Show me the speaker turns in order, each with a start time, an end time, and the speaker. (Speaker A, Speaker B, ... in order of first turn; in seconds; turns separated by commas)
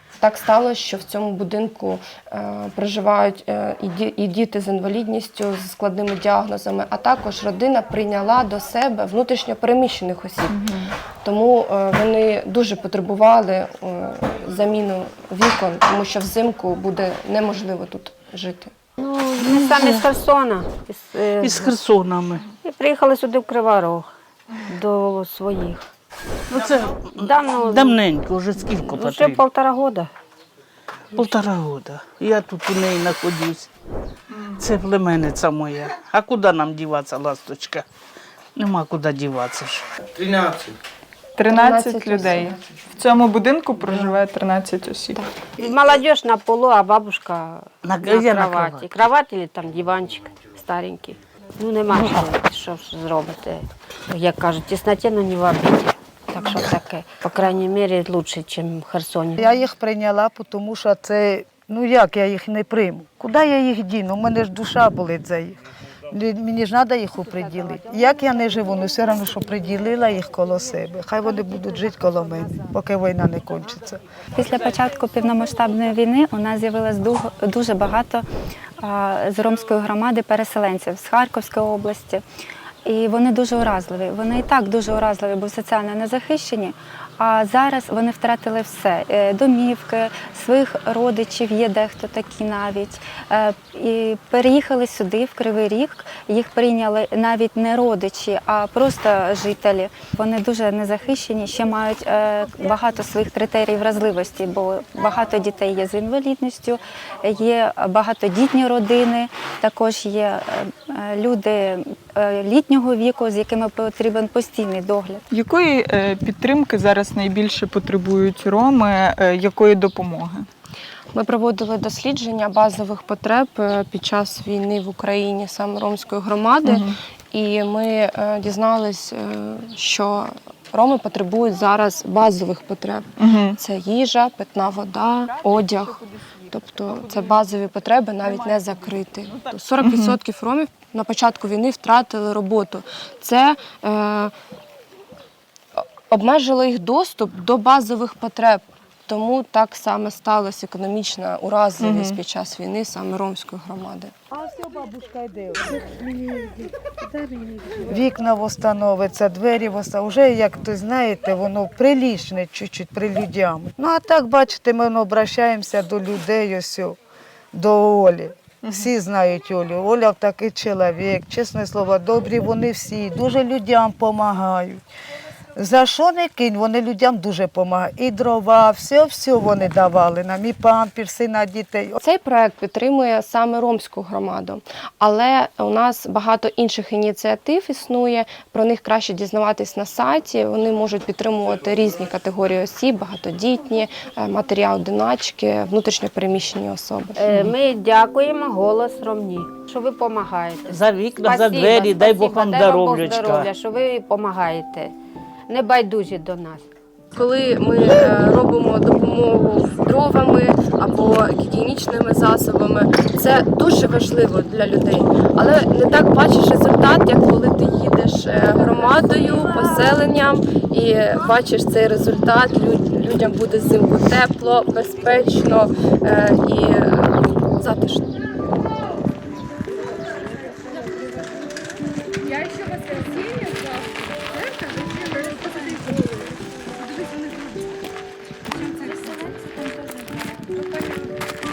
Speaker A: 0.2-10.7, Speaker B: 10.5-10.9, Speaker A: 11.2-18.7, Speaker C: 19.0-21.8, Speaker B: 19.4-19.8, Speaker D: 21.4-22.4, Speaker C: 22.6-24.1, Speaker C: 24.7-25.9, Speaker D: 26.5-29.4, Speaker C: 27.1-28.0, Speaker C: 28.6-30.1, Speaker D: 31.1-33.7, Speaker B: 34.3-34.6, Speaker D: 34.6-37.9, Speaker D: 38.6-39.9, Speaker B: 41.4-45.3, Speaker A: 41.5-42.6, Speaker C: 45.6-59.4, Speaker D: 47.8-49.1, Speaker D: 51.9-52.3, Speaker E: 59.4-74.0, Speaker F: 74.3-78.3, Speaker F: 78.8-82.2, Speaker F: 82.8-115.2, Speaker B: 115.3-120.5, Speaker A: 121.1-144.3, Speaker B: 126.7-127.0, Speaker B: 133.2-133.6, Speaker B: 135.3-137.6, Speaker B: 138.2-140.2, Speaker A: 145.8-154.1, Speaker B: 151.8-152.2, Speaker E: 154.3-167.0, Speaker E: 167.5-174.8, Speaker E: 175.5-182.0, Speaker A: 182.0-197.2, Speaker C: 197.2-204.9, Speaker D: 200.7-203.5, Speaker C: 205.5-206.7, Speaker A: 207.1-228.1, Speaker A: 232.4-233.6, Speaker A: 235.0-236.0, Speaker A: 238.7-239.1